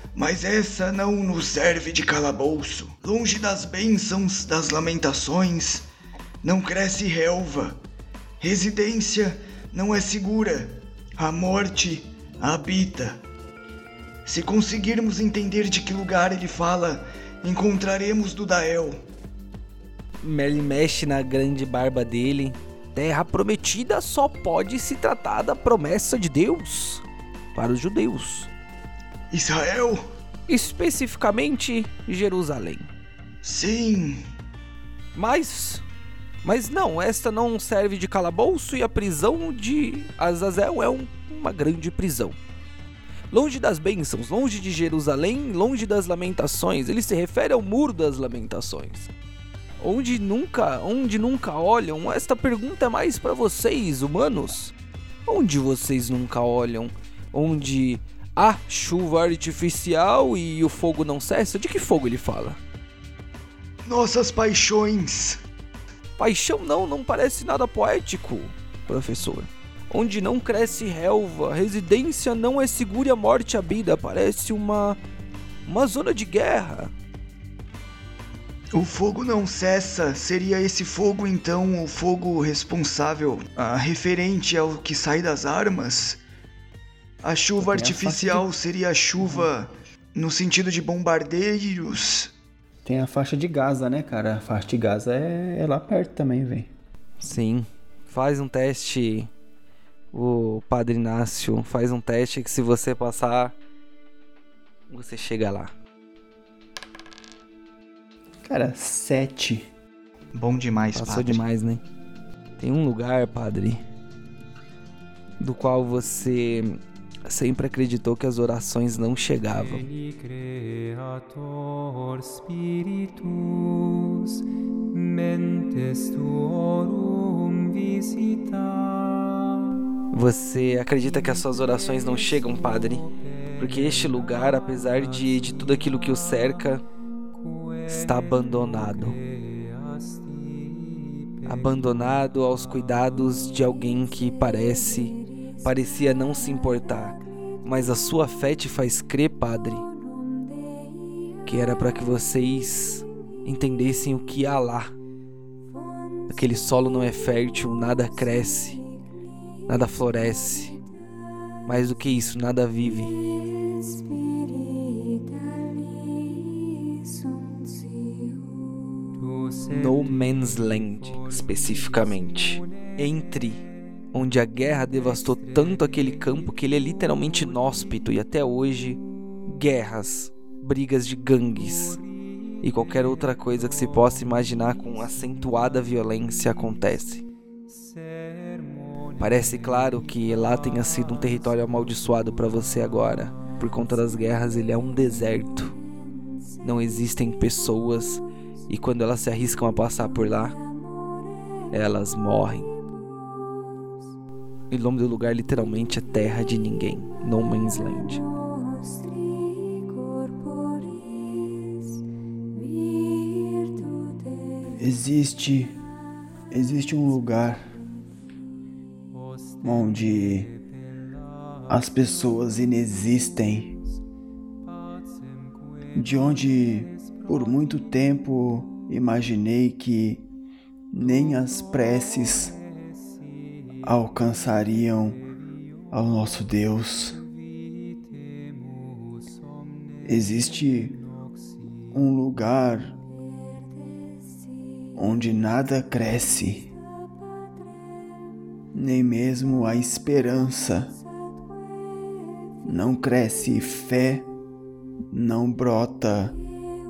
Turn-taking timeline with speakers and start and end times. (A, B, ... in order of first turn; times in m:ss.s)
0:00.2-0:05.9 A
0:06.4-0:07.8 A
0:08.4-0:13.2 A
0:14.3-0:19.0 A
0:20.2-0:28.5 B
0:29.3-0:30.0 A
0:30.5-0:32.9 B
0:33.4-0:34.2 A
0:35.2-0:35.8 B
0:36.4-0:42.4 B
0:43.3-0:49.1 B
0:49.8-0:54.7 B
0:55.3-1:02.6 B
1:03.8-1:05.4 A
1:06.2-1:15.0 B
1:15.7-1:16.9 B
1:18.7-1:26.2 A
1:27.2-1:32.3 A
1:27.6-1:28.5 C
1:29.2-1:29.5 C
1:32.8-1:36.7 C
1:37.2-1:39.3 B
1:40.1-1:43.6 B
1:44.9-1:45.7 B
1:48.4-1:49.7 C
1:50.3-1:51.4 A
1:50.9-1:51.8 B
1:52.6-1:53.8 B
1:55.4-1:59.9 B
2:10.1-2:13.1 B
2:13.6-2:16.8 B
2:17.9-2:19.2 B
2:21.4-2:29.9 B
2:31.5-2:34.9 B
2:36.3-2:38.8 B
2:39.7-2:40.8 B
2:41.7-2:43.2 B
2:49.7-3:02.0 B
3:02.6-3:07.3 B
3:09.2-3:15.8 B
3:16.6-3:20.6 B
3:21.7-3:22.7 B
3:24.7-3:28.2 B
3:34.8-3:35.8 C
3:36.5-3:37.7 C
3:39.6-3:40.5 C
3:41.7-3:43.8 C
3:45.9-3:50.3 C
3:50.9-3:52.6 C
3:53.8-3:55.2 C
3:55.9-3:57.2 C
4:00.0-4:01.0 C
4:01.9-4:03.0 C
4:05.0-4:06.7 C
4:08.7-4:11.0 C
4:12.6-4:14.3 C
4:15.1-4:16.4 C